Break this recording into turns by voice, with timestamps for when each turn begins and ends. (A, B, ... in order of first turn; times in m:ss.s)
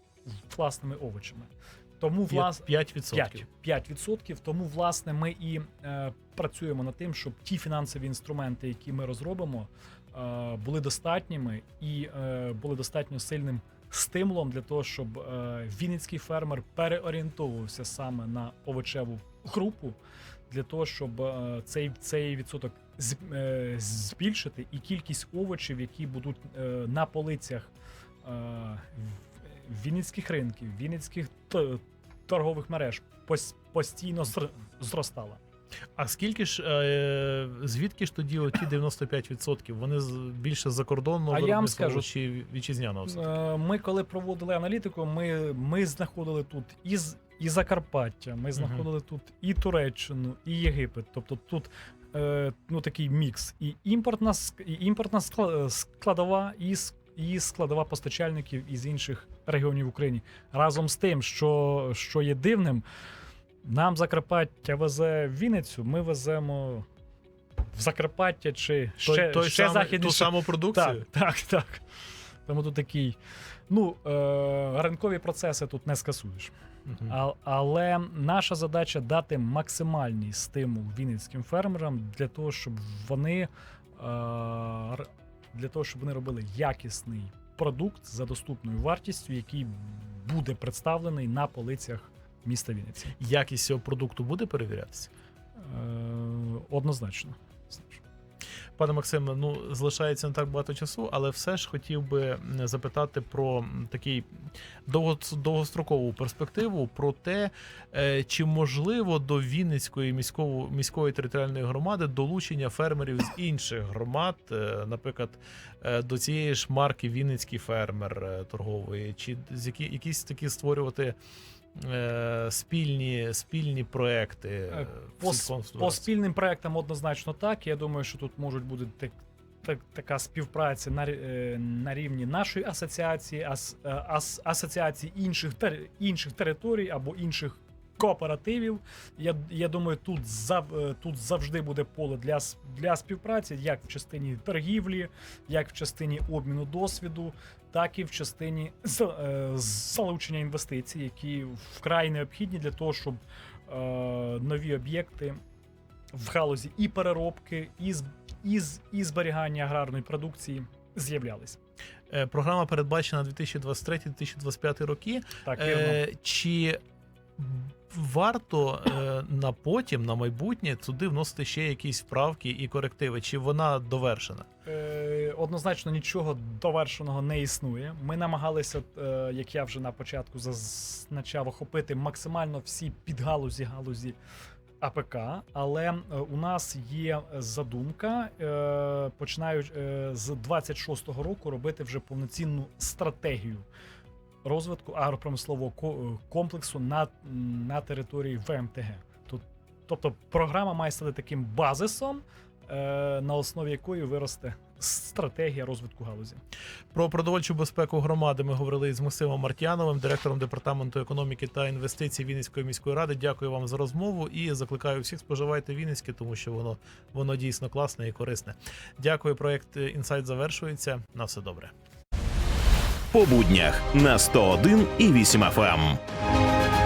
0:00.3-0:20.0 A
0:02.3-0:03.4 B
0:20.5-0:27.7 A
0:28.2-0:35.4 A
0:36.0-0:43.3 B
0:41.3-0:42.1 A
0:43.1-1:02.8 A
0:48.6-0:48.8 B
1:03.6-1:06.8 A
1:07.7-1:11.8 A
1:09.0-1:11.0 B
1:12.4-1:13.2 A
1:13.7-1:16.5 A
1:17.0-1:33.1 A
1:33.2-1:35.1 B
1:35.6-1:38.0 A
1:38.8-1:44.2 B
1:44.9-2:01.2 B
2:01.8-2:06.0 B
2:04.7-2:35.4 A
2:36.1-2:41.6 A
2:42.1-2:46.8 B
2:45.4-2:46.0 A
2:47.4-2:54.4 B
2:54.6-3:04.2 A
3:04.8-3:13.6 A
3:14.4-3:26.4 A
3:26.9-3:41.7 B
3:43.1-3:46.0 C